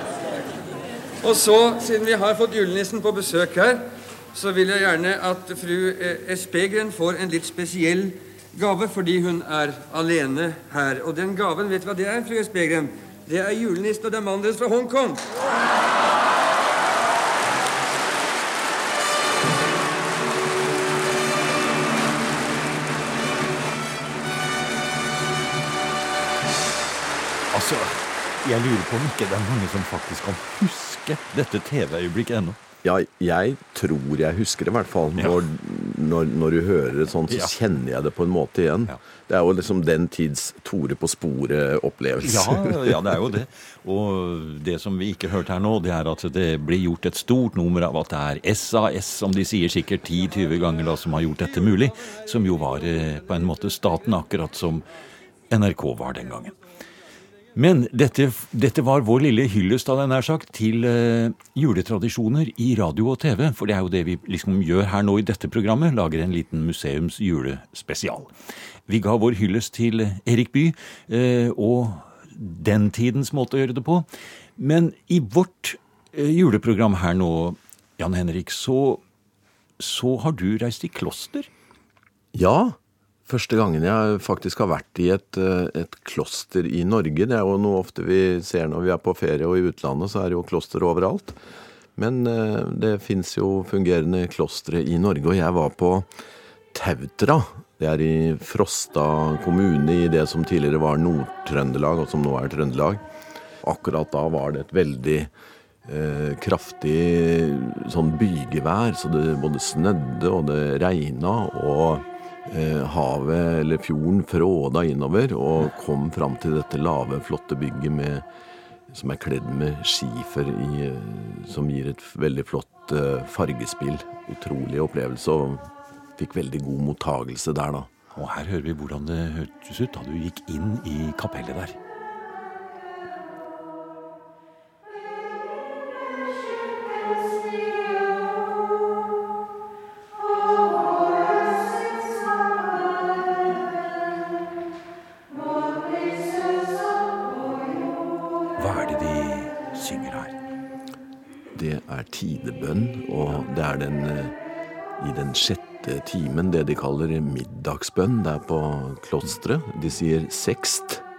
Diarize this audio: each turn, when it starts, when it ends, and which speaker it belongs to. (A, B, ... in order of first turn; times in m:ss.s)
0:01.2-0:15.3 A
0:27.5-0:32.6 B
0:32.8-0:43.2 C
0:35.2-0:35.4 B
0:37.3-0:37.5 B
0:42.2-0:54.9 B
0:55.5-0:56.5 B
0:57.5-1:08.3 B
1:08.9-1:14.0 B
1:14.6-1:19.0 B
1:19.8-1:21.5 B
1:22.3-1:31.4 C
1:32.0-1:36.1 C
1:36.7-1:43.0 C
1:43.6-1:45.3 C
1:45.8-1:58.2 C
1:58.9-2:07.9 C
2:08.1-2:11.8 B
2:28.6-2:30.4 B
2:31.5-2:34.4 C
2:35.0-2:41.0 C